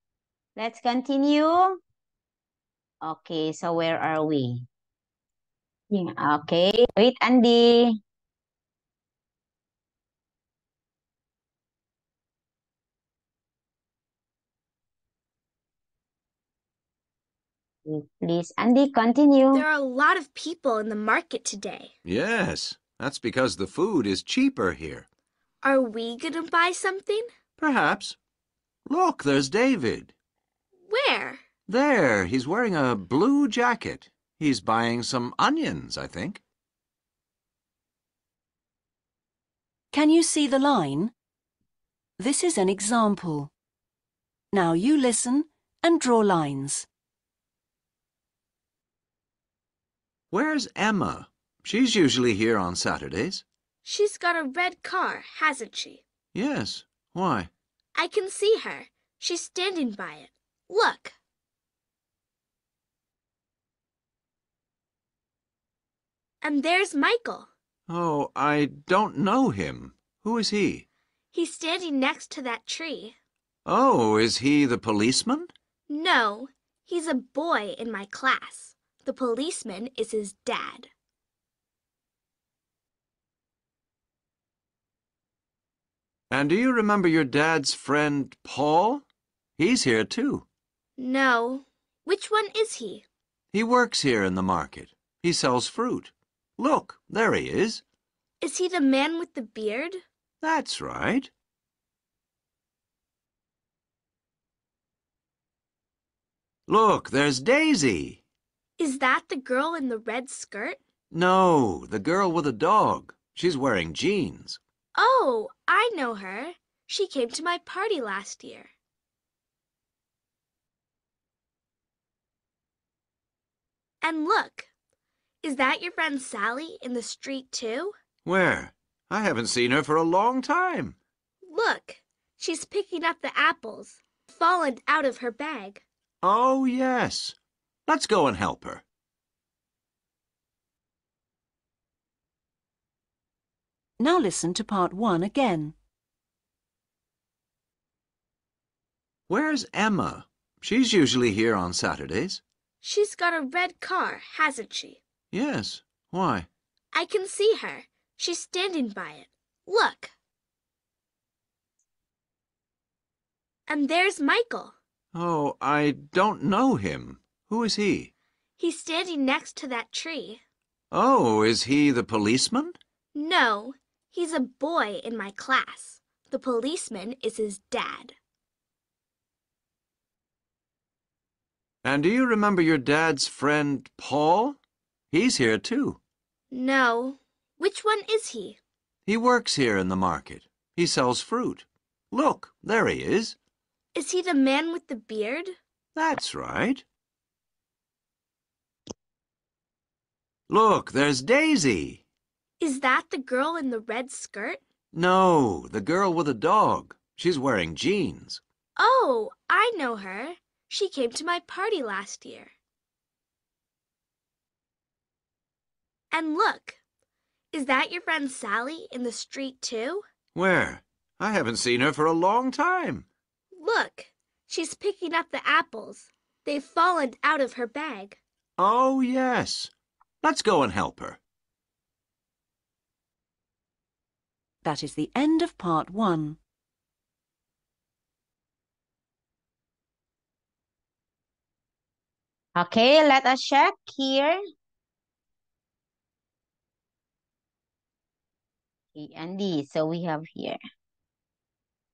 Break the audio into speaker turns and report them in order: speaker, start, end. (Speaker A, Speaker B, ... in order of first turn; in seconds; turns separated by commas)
Speaker A: 0.6-1.8, Speaker A: 3.0-4.7, Speaker A: 5.9-8.0, Speaker A: 17.9-19.6, Speaker B: 19.5-21.9, Speaker C: 22.1-25.1, Speaker B: 25.6-27.3, Speaker C: 27.6-28.1, Speaker C: 28.9-30.1, Speaker B: 30.9-31.4, Speaker C: 31.7-36.4, Speaker D: 39.9-41.1, Speaker D: 42.2-43.5, Speaker D: 44.5-46.9, Speaker C: 50.3-53.4, Speaker B: 53.8-56.0, Speaker C: 56.3-57.5, Speaker B: 57.9-61.1, Speaker B: 66.4-67.5, Speaker C: 67.9-70.8, Speaker B: 71.3-73.2, Speaker C: 73.7-75.5, Speaker B: 75.9-80.9, Speaker C: 86.3-89.0, Speaker C: 89.6-90.4, Speaker B: 91.0-93.0, Speaker C: 93.5-97.8, Speaker B: 98.4-100.0, Speaker C: 100.4-101.3, Speaker C: 106.7-108.2, Speaker B: 108.8-110.8, Speaker C: 111.1-114.6, Speaker B: 114.9-118.7, Speaker B: 124.0-124.7, Speaker B: 125.4-127.9, Speaker C: 128.2-130.9, Speaker B: 131.4-135.8, Speaker C: 136.2-137.3, Speaker C: 137.9-138.8, Speaker D: 144.0-145.7, Speaker C: 149.3-152.4, Speaker B: 152.8-155.0, Speaker C: 155.3-156.5, Speaker B: 156.9-160.1, Speaker B: 163.7-164.7, Speaker C: 165.1-168.1, Speaker B: 168.6-170.4, Speaker C: 170.9-172.8, Speaker B: 173.1-178.1, Speaker C: 181.8-184.6, Speaker C: 185.1-186.0, Speaker B: 186.5-188.6, Speaker C: 189.1-193.3, Speaker B: 193.9-195.6, Speaker C: 195.9-196.8, Speaker C: 200.5-202.0, Speaker B: 202.6-204.6, Speaker C: 204.9-208.4, Speaker B: 208.8-212.5, Speaker B: 216.1-216.8, Speaker B: 217.5-220.0, Speaker C: 220.3-223.1, Speaker B: 223.5-228.2, Speaker C: 228.6-229.7, Speaker C: 230.2-231.2, Speaker D: 234.6-236.4, Speaker A: 242.5-244.4, Speaker A: 248.9-250.6